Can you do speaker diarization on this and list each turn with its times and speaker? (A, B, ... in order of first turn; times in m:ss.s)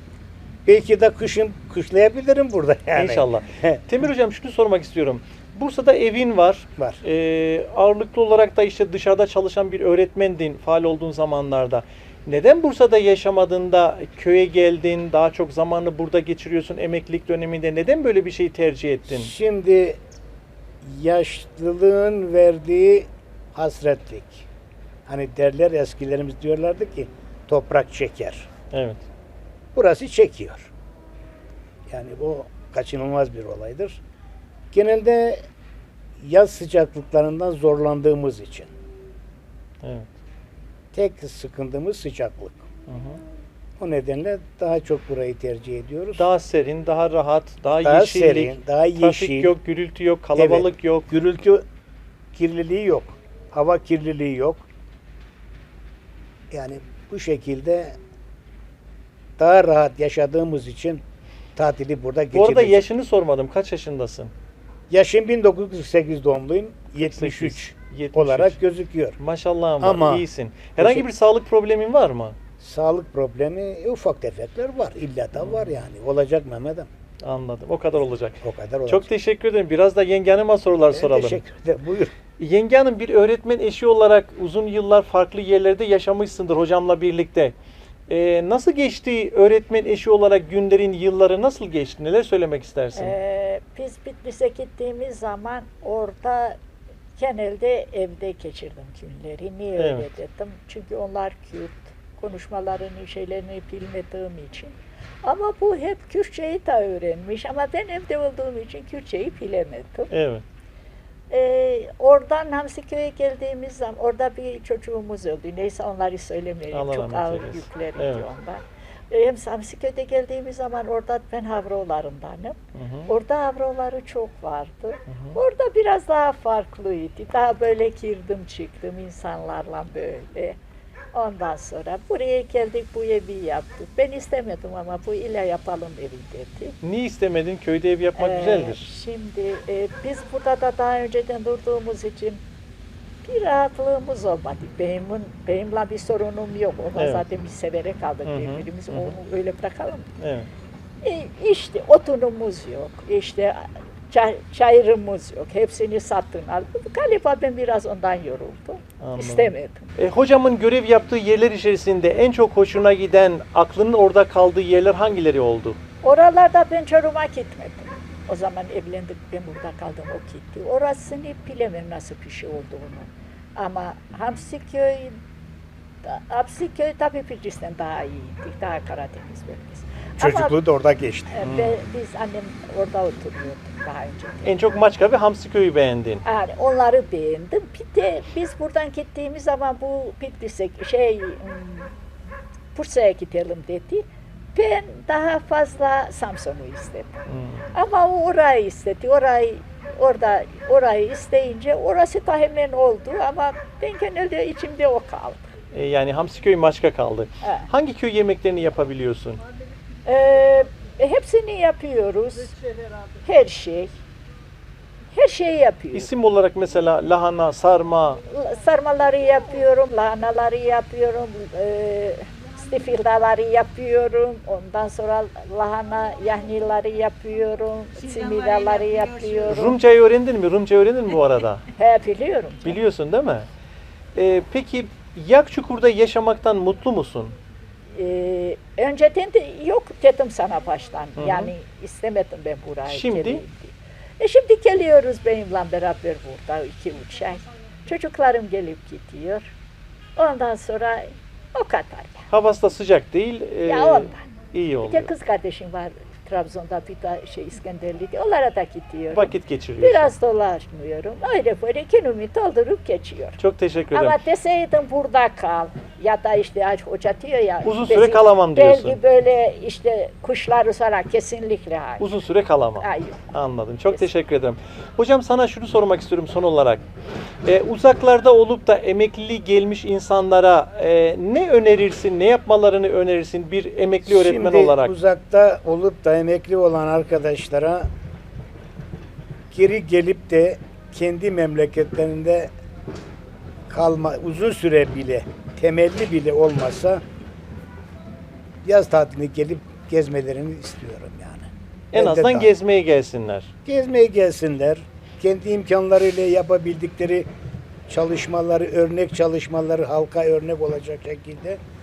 0:00.6-0:03.8 A
0:03.0-0:19.3 B
0:19.1-0:20.0 A
0:20.8-0:24.5 A
0:25.0-0:28.5 A
0:28.7-0:29.0 B
0:29.7-0:30.7 A
0:31.9-0:34.0 A
0:34.7-0:35.4 A
0:36.2-0:38.7 A
0:39.8-0:40.1 B
0:40.9-0:42.6 A
0:42.9-0:43.2 B
0:43.8-0:46.2 A
0:46.2-0:51.1 B
0:47.8-0:49.5 A
0:50.4-0:51.6 A
0:52.3-0:54.6 A
0:56.5-0:58.0 A
0:59.4-1:01.0 A
1:01.6-1:02.9 A
1:02.3-1:04.3 B
1:04.9-1:09.2 A
1:07.0-1:08.6 B
1:09.2-1:12.4 B
1:09.8-1:10.2 A
1:10.8-1:11.0 A
1:12.6-1:16.9 A
1:15.4-1:15.8 B
1:17.2-1:21.4 B
1:18.4-1:19.1 A
1:20.9-1:22.1 A
1:22.4-1:27.5 B
1:28.1-1:33.1 B
1:33.0-1:36.6 C
1:37.2-1:50.1 C
1:39.8-1:40.0 B
1:50.1-1:50.4 B
1:51.3-2:10.6 C
1:56.7-1:58.2 B
2:02.7-2:03.1 B
2:05.1-2:05.4 B
2:11.1-2:16.8 C
2:16.8-2:18.9 B
2:18.2-2:22.4 C
2:23.2-2:30.1 C
2:27.0-2:27.2 B
2:28.2-2:29.1 B
2:30.2-2:30.5 B
2:31.0-2:39.9 C
2:39.0-2:45.8 B
2:46.0-2:55.2 C
2:56.0-3:00.6 C
3:00.2-3:01.3 A
3:01.3-3:04.5 C
3:01.4-3:01.8 B
3:04.4-3:06.2 B
3:06.2-3:11.9 C
3:12.7-3:17.2 C
3:17.3-3:17.7 B
3:17.7-3:25.5 C
3:25.7-3:29.4 B
3:27.4-3:27.7 C
3:30.0-3:32.6 C
3:33.2-3:33.9 C
3:35.1-3:36.1 C
3:35.9-3:38.2 B
3:38.2-3:49.8 C
3:49.5-3:51.6 B
3:51.8-3:52.8 C
3:52.6-3:53.5 B
3:54.1-3:57.3 B
3:57.9-4:09.5 C
4:01.2-4:01.5 B
4:02.9-4:03.4 B
4:10.2-4:12.3 C
4:12.3-4:15.1 B
4:13.6-4:14.3 C
4:14.8-4:23.4 C
4:19.1-4:20.1 B
4:23.4-4:24.2 B
4:23.9-4:32.1 C
4:27.6-4:29.0 B
4:32.0-4:36.8 B
4:32.8-4:33.2 C
4:37.4-4:44.9 B
4:44.0-4:47.9 A
4:49.5-4:52.5 A
4:53.7-4:57.0 A
4:58.6-5:02.5 A
5:01.9-5:03.5 B
5:03.6-5:07.3 A
5:07.9-5:11.6 A